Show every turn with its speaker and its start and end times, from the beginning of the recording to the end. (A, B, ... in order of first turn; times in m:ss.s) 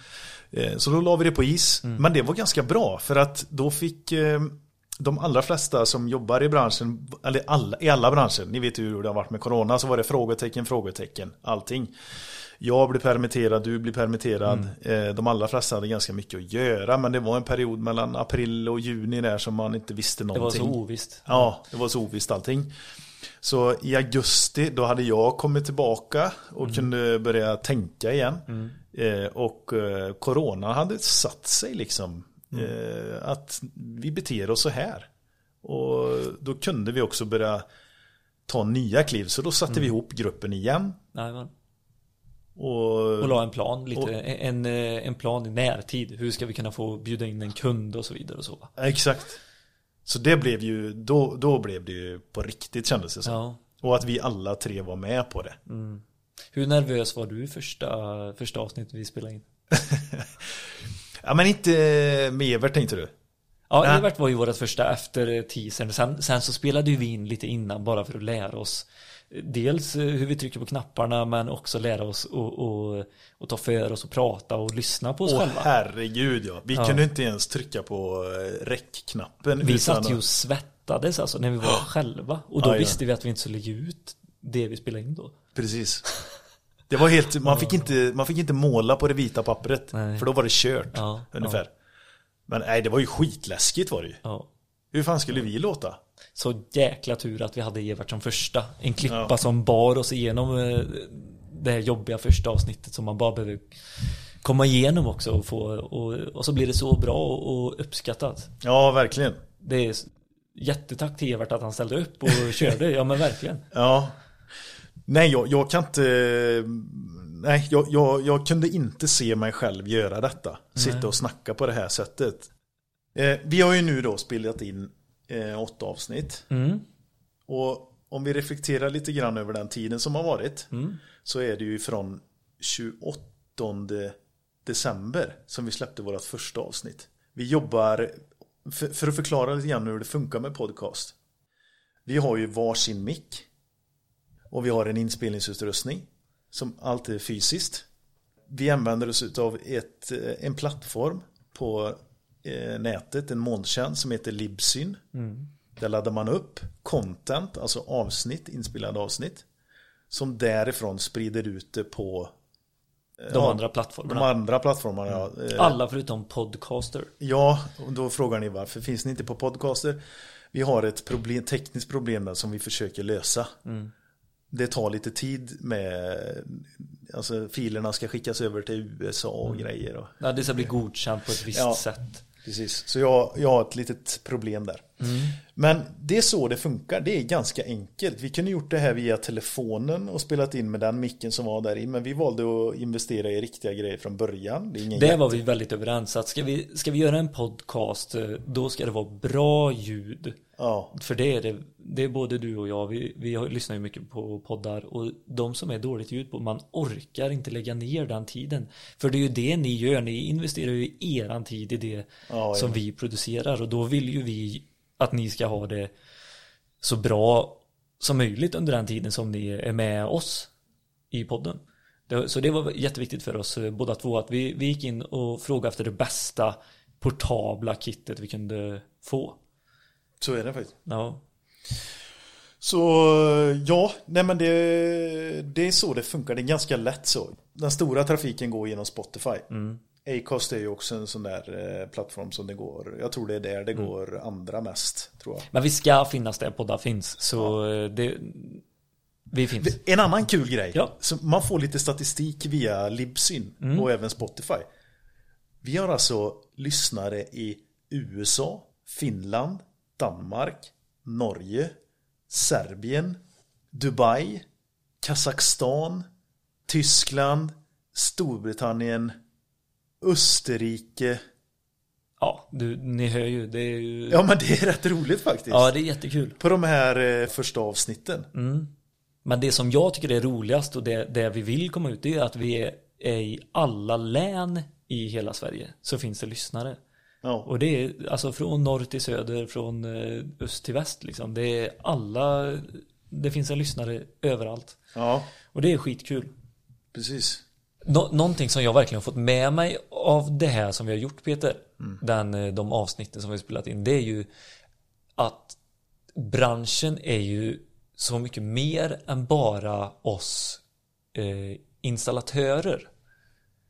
0:00.5-0:12.0 A
0:12.6-0:22.7 A
0:20.3-0:21.5 B
0:23.4-0:35.1 A
0:26.6-0:26.9 B
0:28.5-0:28.8 B
0:35.6-0:37.7 A
0:38.5-0:41.0 A
0:41.1-0:41.5 B
0:42.6-0:43.4 A
0:43.2-0:48.7 B
0:48.8-0:49.4 A
0:50.0-0:55.6 A
0:53.2-0:53.6 B
0:55.7-0:59.5 B
0:59.7-1:00.7 A
1:01.2-1:03.1 A
1:03.7-1:15.7 B
1:15.2-1:20.2 A
1:16.8-1:17.0 B
1:19.6-1:25.4 B
1:22.6-1:23.0 A
1:25.6-1:26.0 A
1:26.9-1:31.7 A
1:27.4-1:27.9 B
1:29.9-1:30.3 B
1:30.9-1:31.6 B
1:32.5-1:34.2 A
1:34.2-1:34.5 B
1:34.9-1:36.0 A
1:36.4-1:48.5 B
1:39.0-1:39.3 A
1:48.6-1:49.4 A
1:49.6-1:53.7 B
1:52.3-1:52.7 A
1:53.7-1:54.2 A
1:55.1-2:02.5 A
2:00.8-2:01.1 B
2:03.2-2:06.5 A
2:06.5-2:06.8 B
2:07.5-2:21.2 A
2:10.7-2:11.0 B
2:22.1-2:23.5 A
2:24.5-2:27.9 A
2:28.5-2:35.0 A
2:35.1-2:35.5 B
2:35.8-2:39.4 A
2:40.1-2:42.3 A
2:43.2-2:45.8 A
2:43.3-2:44.3 B
2:45.1-2:47.1 B
2:47.2-2:50.0 A
2:50.5-2:53.5 A
2:53.7-2:53.9 B
2:54.5-3:00.6 A
3:00.2-3:02.2 B
3:01.5-3:01.8 A
3:02.4-3:15.4 A
3:05.0-3:05.4 B
3:14.9-3:20.4 B
3:20.6-3:20.9 A
3:20.9-3:35.9 B
3:32.3-3:32.8 A
3:36.8-3:40.5 B
3:41.1-3:49.4 B
3:50.2-3:50.8 A
3:50.9-3:51.2 B
3:52.6-3:59.5 A
3:59.5-3:59.8 B
4:00.0-4:05.5 A
4:05.5-4:08.6 B
4:09.3-4:09.8 B
4:09.6-4:14.6 A
4:13.6-4:13.9 B
4:15.6-4:21.8 A
4:22.3-4:23.2 A
4:23.7-4:24.5 A
4:25.0-4:26.1 A
4:26.7-4:29.2 A
4:30.0-4:31.2 A
4:32.2-4:34.2 B
4:34.1-4:35.7 A
4:35.5-4:36.4 B
4:36.4-4:38.3 A
4:38.3-4:38.7 B
4:39.2-4:46.8 B
4:47.2-4:47.5 A
4:47.4-4:54.8 B
4:55.0-4:55.3 A
4:55.5-4:56.3 B
4:56.9-4:57.4 A
4:57.8-5:04.3 B
5:05.2-5:05.6 B
5:06.2-5:10.6 B
5:11.1-5:12.9 B